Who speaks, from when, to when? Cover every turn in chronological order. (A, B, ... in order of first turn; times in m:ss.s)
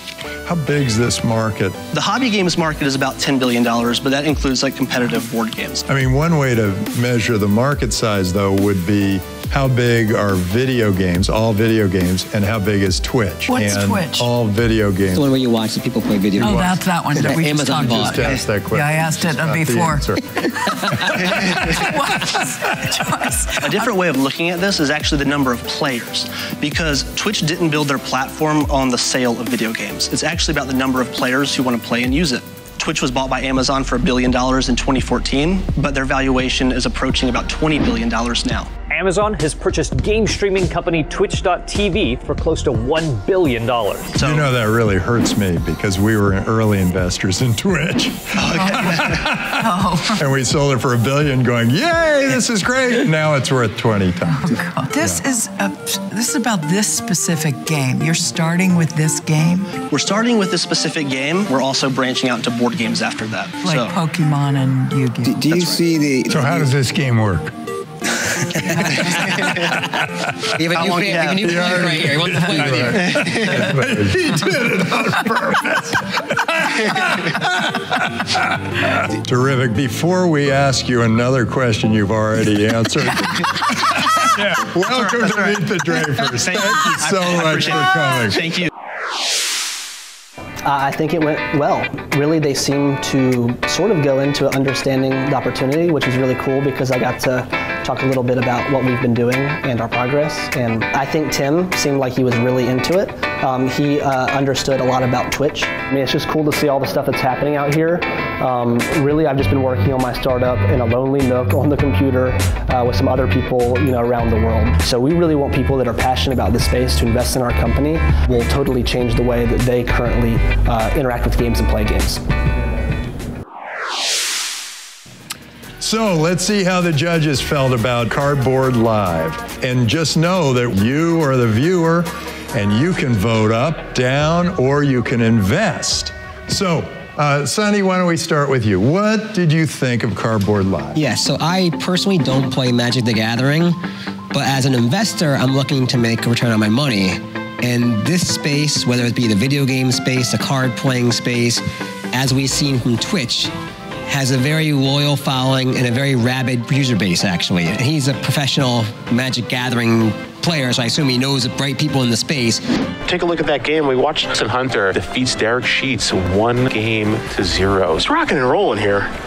0:00.4-0:01.8 A
0:01.9-0:05.9 B
0:05.9-0:15.3 A
0:13.5-0:14.3 C
0:15.1-0:18.4 D
0:16.4-0:24.0 C
0:17.8-0:20.2 A
0:23.6-0:38.7 B
0:38.8-0:44.2 E
0:44.2-0:44.5 B
0:44.2-0:55.2 A
0:48.5-0:50.2 C
0:54.4-0:59.7 C
0:59.9-1:03.9 B
1:03.6-1:05.5 C
1:05.2-1:06.7 D
1:05.5-1:05.8 B
1:06.3-1:07.5 F
1:08.6-1:09.8 D
1:10.5-1:13.6 D
1:10.8-1:11.6 B
1:11.2-1:16.0 A
1:12.6-1:15.0 F
1:19.2-1:28.5 A
1:26.3-1:28.7 B
1:30.6-2:02.2 G
2:05.8-2:21.0 A
2:21.0-2:23.8 D
2:24.3-2:33.5 D
2:34.1-2:42.6 D
2:43.1-2:49.1 H